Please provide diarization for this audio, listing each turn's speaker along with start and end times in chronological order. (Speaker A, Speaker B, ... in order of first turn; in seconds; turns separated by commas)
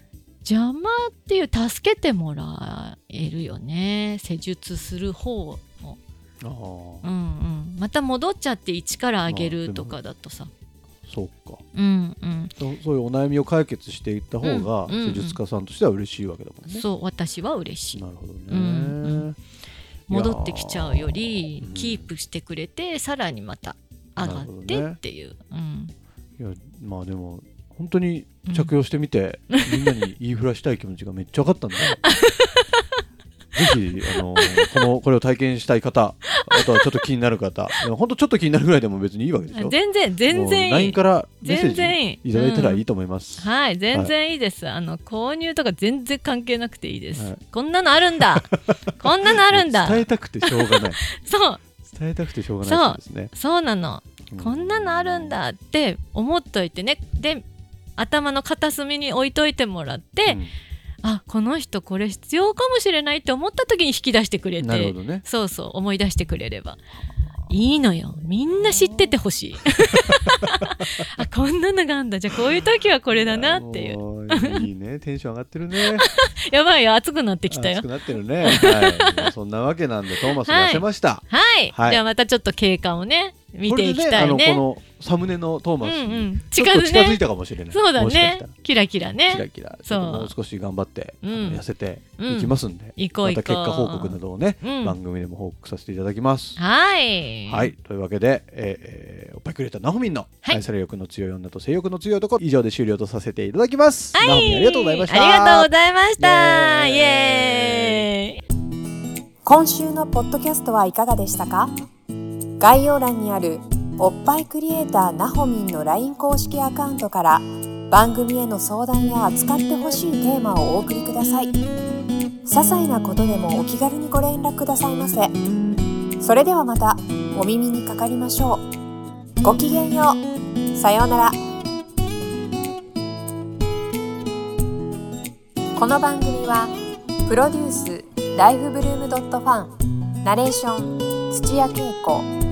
Speaker A: 0.4-6.0, Speaker B: 6.4-7.1, Speaker A: 7.0-10.5, Speaker B: 9.3-10.0, Speaker B: 11.1-11.6, Speaker A: 11.7-12.5, Speaker B: 12.6-16.9, Speaker A: 14.4-15.4, Speaker A: 16.7-19.2, Speaker B: 17.9-19.4, Speaker B: 20.1-22.1, Speaker A: 20.1-25.9, Speaker B: 24.2-25.0, Speaker B: 26.4-32.0, Speaker A: 28.4-28.7, Speaker A: 29.5-30.0, Speaker A: 32.0-32.8, Speaker B: 33.5-39.8, Speaker A: 33.6-34.9, Speaker A: 36.3-36.8, Speaker A: 39.5-42.9, Speaker B: 40.3-44.1, Speaker A: 43.4-51.7, Speaker B: 47.1-47.4, Speaker B: 48.2-51.0, Speaker B: 51.8-53.3, Speaker A: 52.6-57.5, Speaker B: 54.3-55.4, Speaker A: 58.0-60.4, Speaker B: 60.3-60.5, Speaker A: 61.0-66.8, Speaker B: 64.6-65.2, Speaker A: 67.5-74.7, Speaker B: 68.6-69.2, Speaker B: 73.1-76.1, Speaker A: 75.8-79.3, Speaker B: 77.5-82.0, Speaker A: 80.1-84.7, Speaker B: 83.7-88.5, Speaker A: 85.8-90.3, Speaker B: 89.3-96.6, Speaker A: 91.2-91.6, Speaker A: 92.1-94.9, Speaker A: 96.6-97.7, Speaker B: 97.5-108.1, Speaker A: 104.1-108.4, Speaker C: 109.5-111.7, Speaker C: 112.6-121.6, Speaker C: 122.5-125.4, Speaker C: 126.2-128.7, Speaker C: 129.4-131.4, Speaker C: 135.8-136.7, Speaker C: 137.3-142.3